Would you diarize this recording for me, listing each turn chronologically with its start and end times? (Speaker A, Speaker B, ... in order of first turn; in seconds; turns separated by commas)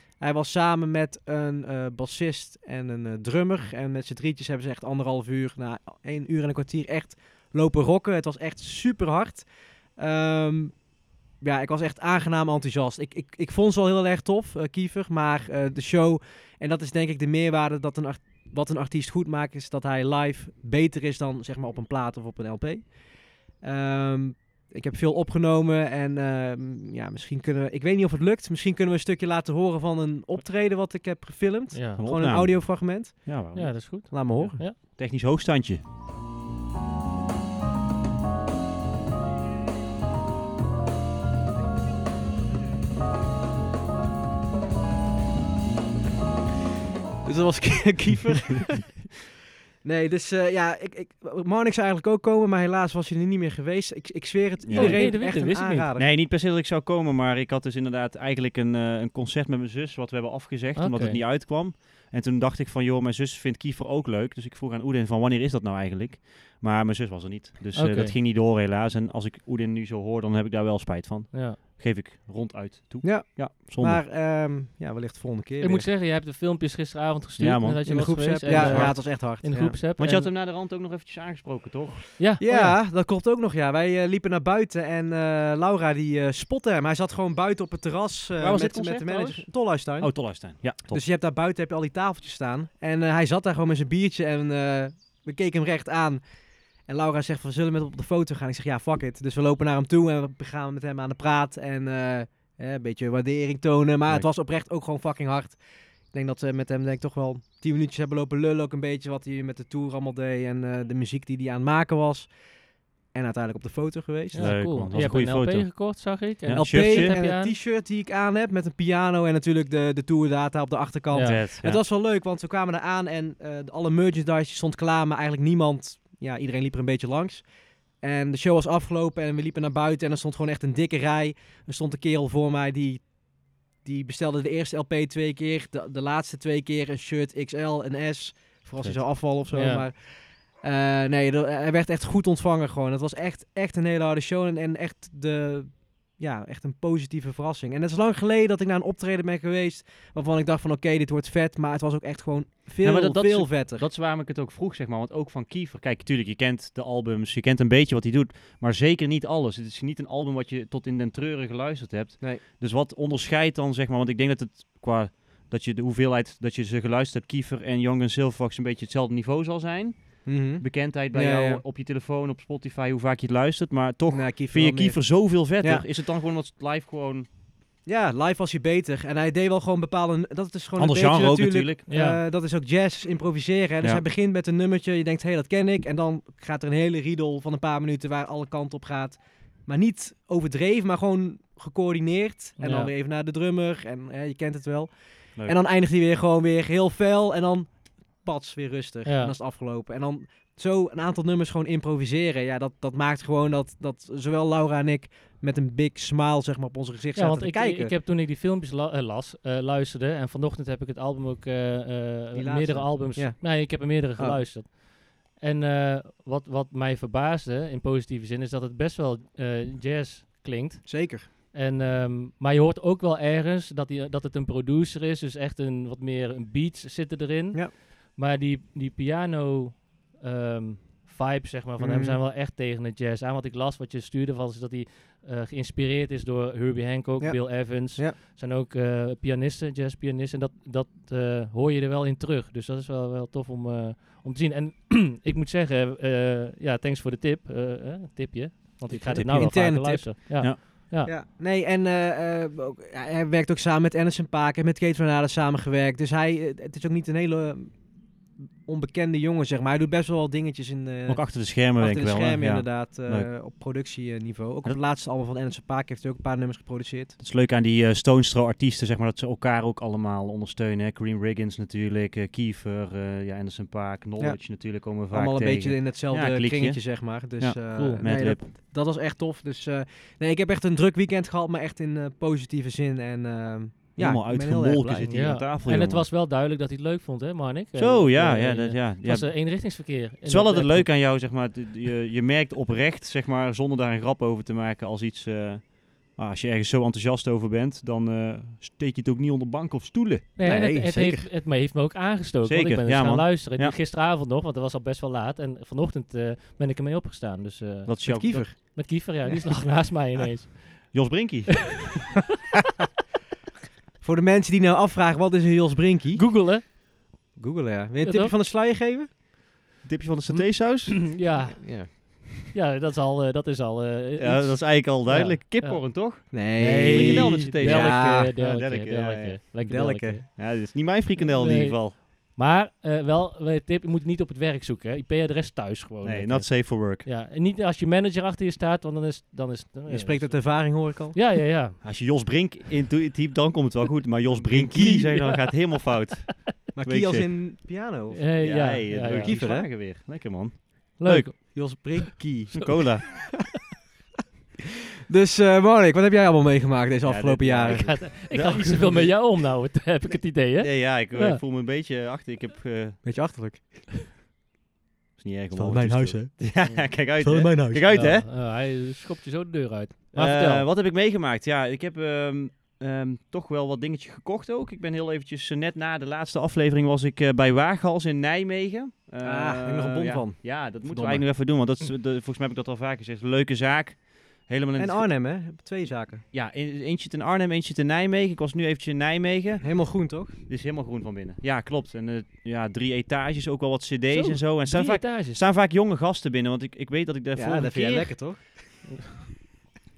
Speaker A: 0.2-10.8, Speaker A: 11.4-33.4, Speaker B: 31.7-32.0, Speaker C: 32.0-35.8, Speaker B: 33.5-34.8, Speaker A: 34.1-34.6, Speaker A: 47.2-48.9, Speaker A: 49.8-56.1, Speaker C: 54.6-55.3, Speaker B: 54.7-55.9, Speaker C: 56.0-74.0, Speaker B: 60.8-61.2, Speaker B: 67.7-68.1, Speaker B: 71.3-71.6, Speaker A: 73.0-75.9, Speaker B: 75.6-80.3, Speaker C: 77.4-79.1, Speaker A: 77.8-79.8, Speaker C: 80.0-82.0, Speaker B: 82.2-82.8, Speaker A: 82.4-96.2, Speaker C: 88.4-91.0, Speaker A: 96.8-105.6, Speaker A: 106.1-112.3, Speaker A: 113.1-114.7, Speaker B: 114.3-117.5, Speaker C: 114.3-117.2, Speaker A: 116.5-127.5, Speaker B: 121.1-121.4, Speaker C: 121.2-121.8, Speaker A: 128.0-153.8, Speaker B: 139.5-139.8, Speaker C: 152.8-177.3, Speaker A: 170.2-171.6, Speaker A: 174.1-175.8, Speaker A: 177.8-207.9, Speaker C: 180.8-181.8, Speaker B: 181.9-182.2, Speaker B: 192.6-192.9, Speaker B: 199.1-199.3, Speaker B: 207.2-251.1, Speaker A: 212.3-214.4, Speaker A: 220.8-221.3, Speaker A: 231.8-232.2, Speaker A: 237.2-238.2, Speaker A: 248.9-257.8, Speaker C: 249.0-249.6, Speaker A: 258.6-267.1, Speaker C: 261.1-263.3, Speaker C: 267.2-278.4, Speaker A: 274.2-285.1, Speaker B: 277.7-278.0, Speaker C: 284.0-286.1, Speaker B: 285.1-290.9, Speaker C: 287.7-300.3, Speaker B: 300.4-311.1, Speaker A: 300.4-301.3, Speaker C: 302.4-303.8, Speaker C: 307.9-308.8, Speaker A: 308.0-308.7, Speaker C: 310.9-311.9, Speaker A: 314.0-316.5, Speaker B: 316.1-316.6, Speaker A: 317.4-319.1, Speaker B: 318.0-318.3, Speaker C: 319.8-321.2, Speaker B: 320.3-341.8, Speaker A: 321.2-321.9, Speaker C: 324.2-329.4, Speaker A: 326.3-328.3, Speaker A: 329.6-330.2, Speaker C: 330.4-331.9, Speaker C: 336.0-337.1, Speaker A: 339.9-341.2, Speaker C: 341.8-347.7, Speaker A: 344.3-345.1, Speaker B: 345.1-345.4, Speaker A: 346.7-349.7, Speaker B: 348.1-349.3, Speaker C: 348.4-351.6, Speaker B: 351.0-352.0, Speaker A: 351.5-353.1, Speaker C: 352.5-353.3, Speaker A: 355.1-358.1, Speaker C: 357.0-359.2, Speaker B: 357.7-361.4, Speaker C: 360.6-363.0, Speaker A: 363.0-364.1, Speaker C: 365.2-368.3, Speaker A: 365.5-368.1, Speaker B: 367.9-370.7, Speaker C: 370.1-385.1, Speaker A: 379.2-381.3, Speaker A: 384.8-386.2, Speaker C: 386.3-389.8, Speaker A: 389.6-390.4, Speaker C: 390.4-398.2, Speaker B: 394.1-395.4, Speaker A: 397.3-398.9